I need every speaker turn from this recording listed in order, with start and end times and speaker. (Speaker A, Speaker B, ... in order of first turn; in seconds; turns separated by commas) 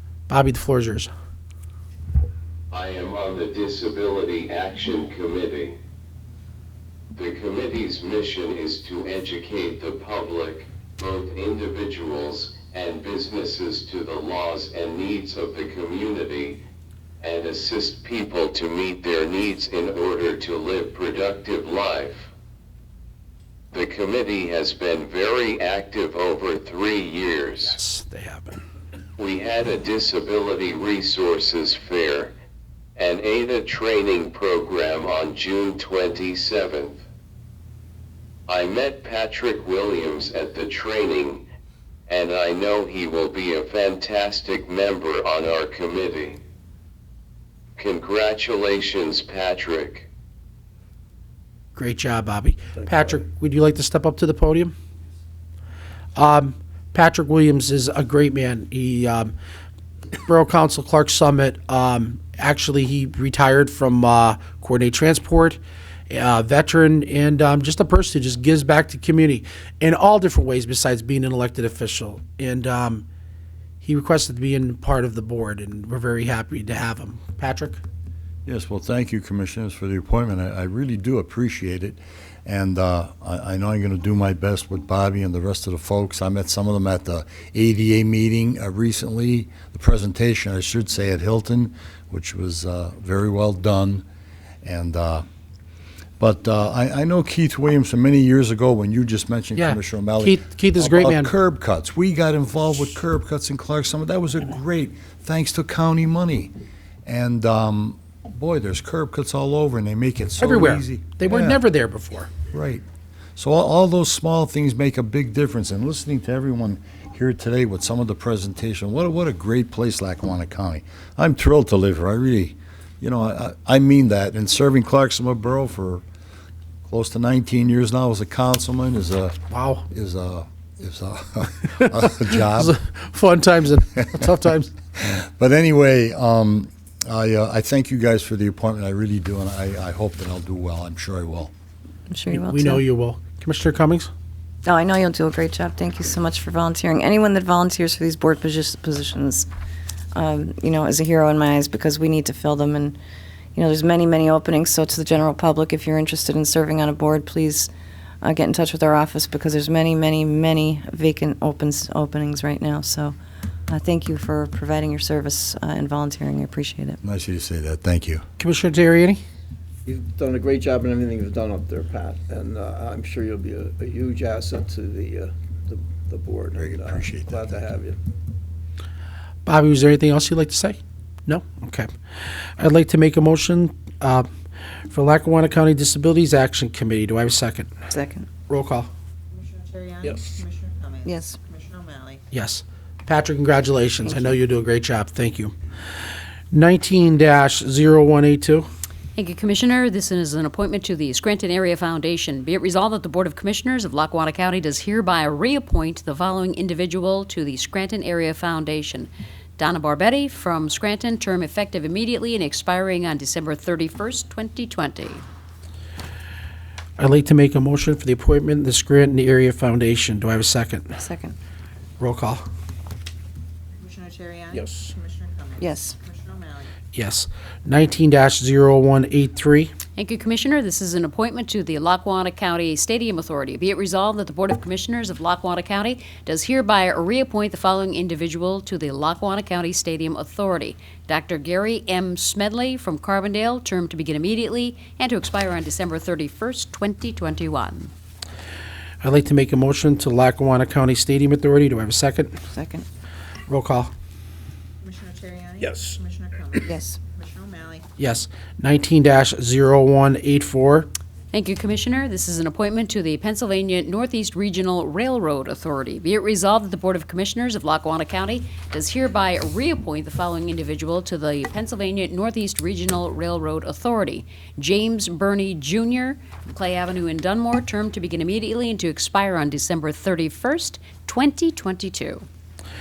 Speaker A: 0.3-1.1, Speaker B: 2.7-5.8, Speaker B: 7.1-16.6, Speaker B: 17.2-22.3, Speaker B: 23.7-27.7, Speaker A: 27.7-28.6, Speaker B: 29.2-32.3, Speaker B: 33.0-37.0, Speaker B: 38.5-41.5, Speaker B: 42.1-46.4, Speaker B: 47.8-50.1, Speaker A: 51.7-54.7, Speaker A: 56.1-59.3, Speaker A: 60.2-73.0, Speaker A: 73.8-77.8, Speaker C: 78.5-94.0, Speaker C: 94.6-95.2, Speaker C: 96.2-106.5, Speaker A: 99.5-101.3, Speaker C: 107.0-111.6, Speaker A: 110.4-112.3, Speaker C: 112.5-112.8, Speaker C: 113.3-126.0, Speaker C: 126.9-129.3, Speaker A: 129.5-129.8, Speaker C: 129.9-132.8, Speaker A: 131.8-134.7, Speaker C: 135.0-141.5, Speaker D: 142.1-142.8, Speaker A: 142.3-144.1, Speaker D: 144.6-149.5, Speaker D: 150.1-153.0, Speaker D: 153.5-157.7, Speaker D: 158.2-163.1, Speaker D: 163.7-167.0, Speaker C: 167.0-168.2, Speaker A: 168.4-169.2, Speaker E: 169.8-178.0, Speaker C: 176.6-177.3, Speaker A: 179.4-181.9, Speaker A: 182.6-184.2, Speaker A: 184.9-187.7, Speaker D: 187.9-188.3, Speaker A: 188.5-188.9, Speaker F: 189.3-192.2, Speaker D: 191.0-191.4, Speaker A: 192.3-195.5, Speaker A: 196.5-198.7, Speaker G: 199.2-215.2, Speaker A: 217.0-220.9, Speaker D: 220.9-221.3, Speaker A: 222.0-222.4, Speaker F: 223.8-226.7, Speaker E: 224.6-224.9, Speaker D: 225.6-225.9, Speaker A: 226.9-229.7, Speaker G: 230.0-247.9, Speaker A: 249.0-252.4, Speaker D: 252.5-252.8, Speaker A: 253.5-253.9, Speaker F: 254.8-257.8, Speaker E: 255.6-256.0, Speaker D: 256.6-257.0, Speaker A: 258.0-260.9, Speaker G: 261.3-282.2